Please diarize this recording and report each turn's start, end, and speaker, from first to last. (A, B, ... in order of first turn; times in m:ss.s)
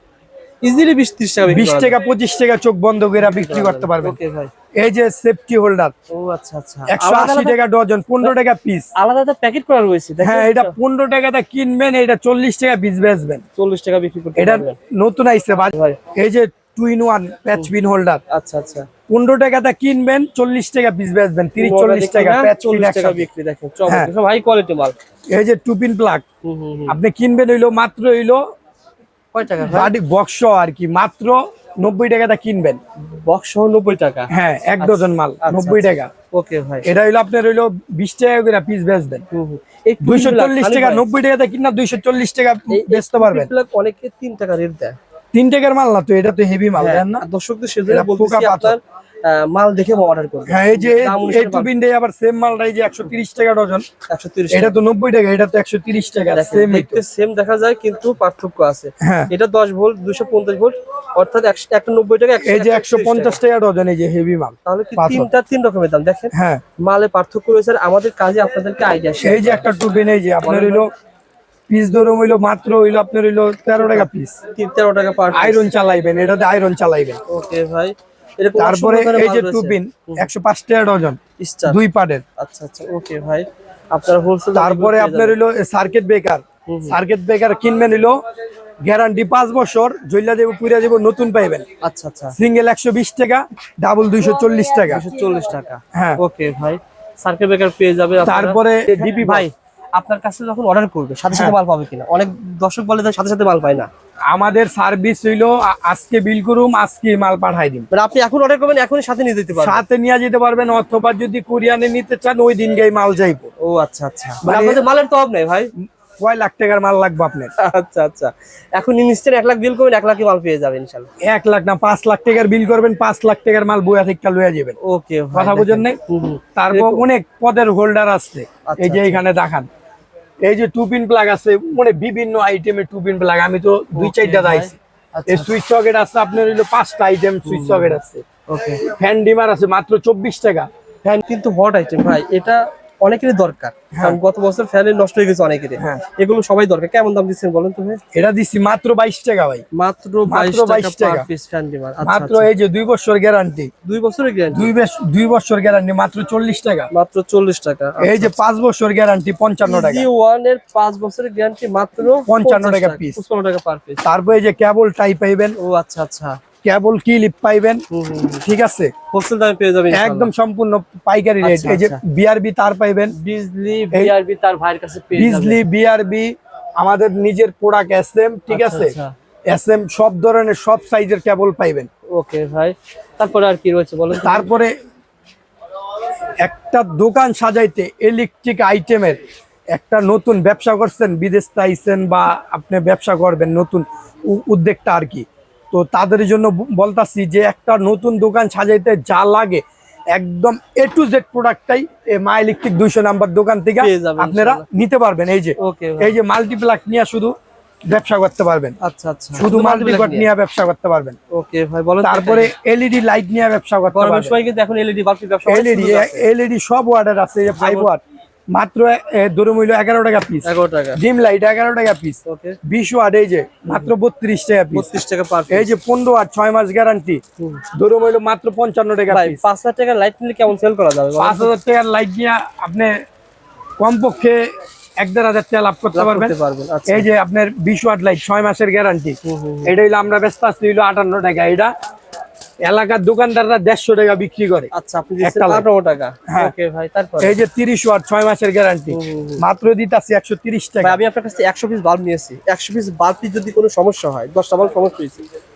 0:00.6-0:02.0 A
0:01.4-0:04.2 B
0:03.2-0:04.5 A
0:04.8-0:05.9 B
0:06.1-0:07.6 A
0:06.9-0:08.9 B
0:08.9-0:10.8 A
0:10.2-0:13.4 B
0:13.6-0:14.8 A
0:14.4-0:18.2 B
0:15.7-0:16.0 A
0:18.3-0:18.9 A
0:19.1-0:23.3 B
0:21.6-0:24.9 A
0:25.3-0:26.2 B
0:26.4-0:27.0 A
0:26.9-0:28.4 B
0:29.3-0:29.9 A
0:29.7-0:32.8 B
0:33.0-0:36.8 A
0:34.3-0:36.1 B
0:36.8-0:39.2 B
0:39.3-0:41.1 A
0:40.0-0:43.5 B
0:42.7-0:45.0 A
0:45.3-0:47.2 B
0:46.8-0:51.7 A
0:47.9-0:48.8 B
0:50.5-0:53.8 B
0:54.1-0:54.8 A
0:54.5-0:57.0 B
0:56.3-1:03.4 A
0:59.0-0:59.3 B
1:02.4-1:05.3 B
1:04.6-1:09.6 A
1:06.3-1:06.6 B
1:09.2-1:10.9 B
1:10.4-1:10.8 A
1:11.7-1:14.4 B
1:13.8-1:15.7 A
1:15.3-1:17.2 B
1:17.3-1:20.3 A
1:18.6-1:22.2 B
1:21.4-1:21.8 A
1:22.4-1:25.4 A
1:24.5-1:28.2 B
1:26.6-1:27.0 A
1:28.8-1:31.6 B
1:31.8-1:32.4 A
1:32.4-1:35.0 B
1:34.9-1:43.9 A
1:35.9-1:36.2 B
1:38.2-1:39.5 B
1:44.3-1:47.9 B
1:47.9-1:49.8 A
1:49.6-1:53.5 B
1:53.6-1:55.7 A
1:54.4-1:54.8 B
1:56.2-1:57.5 B
1:57.6-2:01.1 A
2:01.2-2:04.8 B
2:04.8-2:07.0 A
2:05.3-2:06.0 B
2:06.5-2:09.7 B
2:08.6-2:09.2 A
2:10.4-2:14.7 B
2:14.0-2:15.5 A
2:15.3-2:18.2 B
2:17.4-2:18.8 A
2:18.8-2:20.7 B
2:21.0-2:28.0 A
2:23.9-2:24.2 B
2:28.1-2:29.6 B
2:29.7-2:32.5 A
2:30.3-2:31.3 B
2:32.0-2:33.7 B
2:33.8-2:34.7 A
2:34.5-2:36.9 B
2:36.9-2:38.4 A
2:38.0-2:40.1 B
2:39.6-2:44.0 A
2:42.2-2:43.2 B
2:44.0-2:45.6 B
2:45.6-2:46.4 A
2:46.6-2:47.8 B
2:47.9-2:48.4 A
2:48.4-2:48.9 B
2:49.1-2:50.3 A
2:49.9-2:53.1 B
2:51.4-2:52.0 A
2:53.2-2:55.6 A
2:55.1-2:58.9 B
2:58.5-2:59.1 A
2:59.5-3:01.9 B
3:02.2-3:04.5 A
3:04.1-3:04.7 B
3:06.4-3:09.2 B
3:09.7-3:19.6 B
3:20.1-3:27.3 B
3:23.8-3:24.6 A
3:25.6-3:26.2 A
3:27.9-3:28.7 B
3:28.8-3:30.3 A
3:29.4-3:31.2 B
3:31.3-3:32.5 A
3:32.0-3:34.4 B
3:33.9-3:36.2 A
3:35.4-3:38.0 B
3:37.6-3:37.9 A
3:38.5-3:44.9 B
3:40.4-3:41.0 A
3:42.2-3:42.6 A
3:44.7-3:45.7 A
3:45.5-3:47.2 B
3:47.7-3:49.4 B
3:49.1-3:51.5 A
3:51.2-3:52.9 B
3:53.8-3:54.5 B
3:55.0-3:56.3 B
3:55.9-3:57.0 A
3:56.9-4:01.7 B
3:59.2-3:59.7 A
4:02.6-4:04.7 B
4:04.7-4:07.4 A
4:05.2-4:05.6 B
4:06.3-4:06.5 B
4:07.2-4:11.0 B
4:08.9-4:09.4 A
4:10.8-4:15.2 A